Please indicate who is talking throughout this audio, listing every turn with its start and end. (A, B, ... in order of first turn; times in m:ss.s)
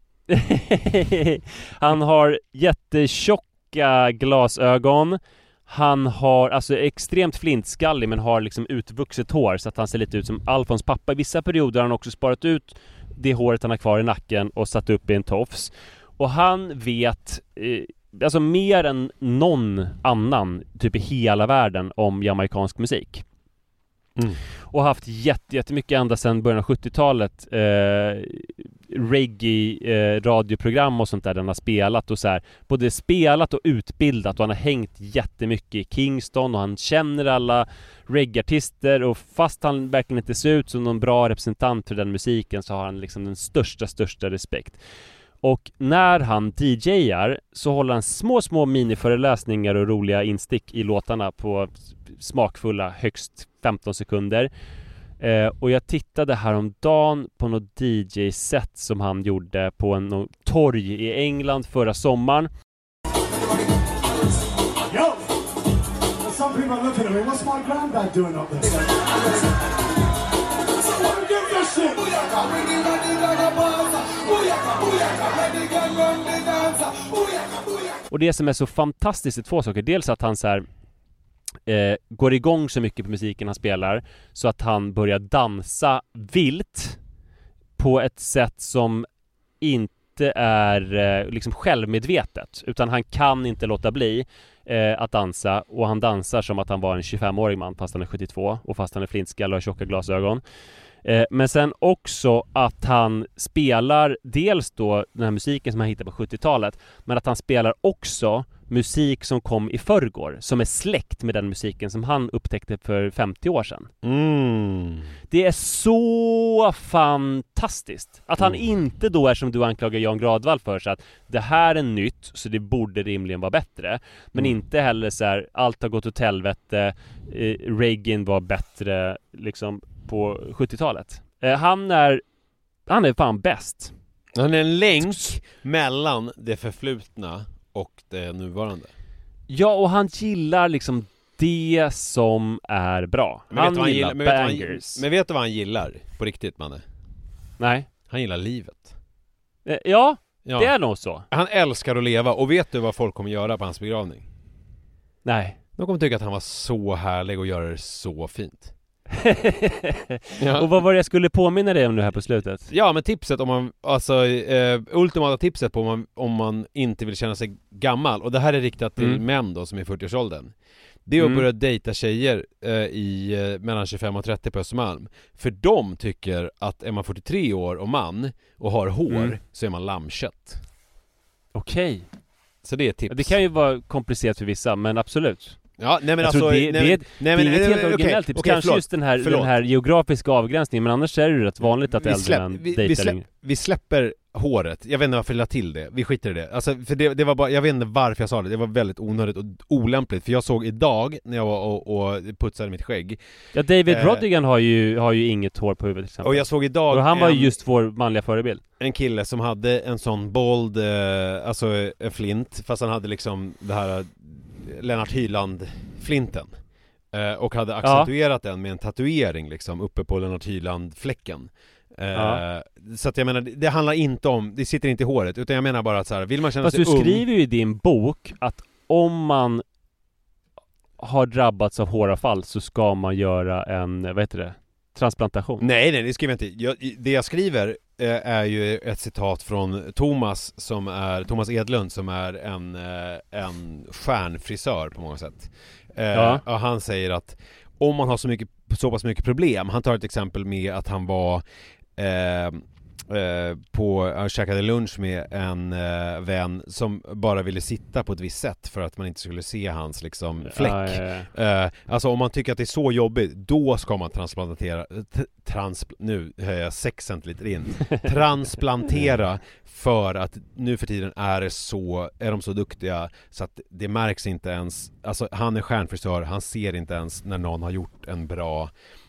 0:00.3-0:23.2 A
0:24.2-0:24.4 B
0:24.7-0:44.8 A
0:45.4-0:54.5 A
0:55.2-1:02.5 A
1:06.3-1:09.2 C
1:11.0-1:17.8 C
1:18.1-1:20.7 A
1:21.6-1:27.0 A
1:27.8-1:29.1 A
1:29.6-1:40.4 A
1:41.0-1:53.9 A
1:54.0-1:55.1 B
1:55.3-2:12.2 A
2:12.9-2:13.9 A
2:14.3-2:18.9 B
2:15.0-2:15.3 A
2:19.5-2:25.0 A
2:23.5-2:26.8 B
2:27.6-2:27.9 A
2:28.1-2:28.9 B
2:29.6-2:31.2 A
2:30.4-2:30.7 B
2:31.3-2:34.3 B
2:35.2-2:35.6 A
2:35.8-2:38.7 B
2:39.1-2:42.7 A
2:40.4-2:40.7 B
2:42.7-2:50.5 B
2:51.0-3:00.6 B
2:51.2-2:51.4 A
2:59.1-2:59.4 A
3:01.5-3:02.1 A
3:02.6-3:03.4 B
3:03.1-3:05.6 A
3:05.8-3:09.6 B
3:06.2-3:13.2 A
3:11.9-3:23.2 B
3:23.5-3:28.6 A
3:23.9-3:24.3 B
3:26.2-3:27.5 B
3:28.8-3:36.5 B
3:37.1-3:47.2 B
3:37.8-3:38.1 A
3:42.1-3:42.4 A
3:46.6-3:49.6 A
3:51.0-3:55.7 A
3:55.6-4:11.4 B
4:06.1-4:06.4 A
4:12.0-4:38.7 B
4:20.5-4:21.3 A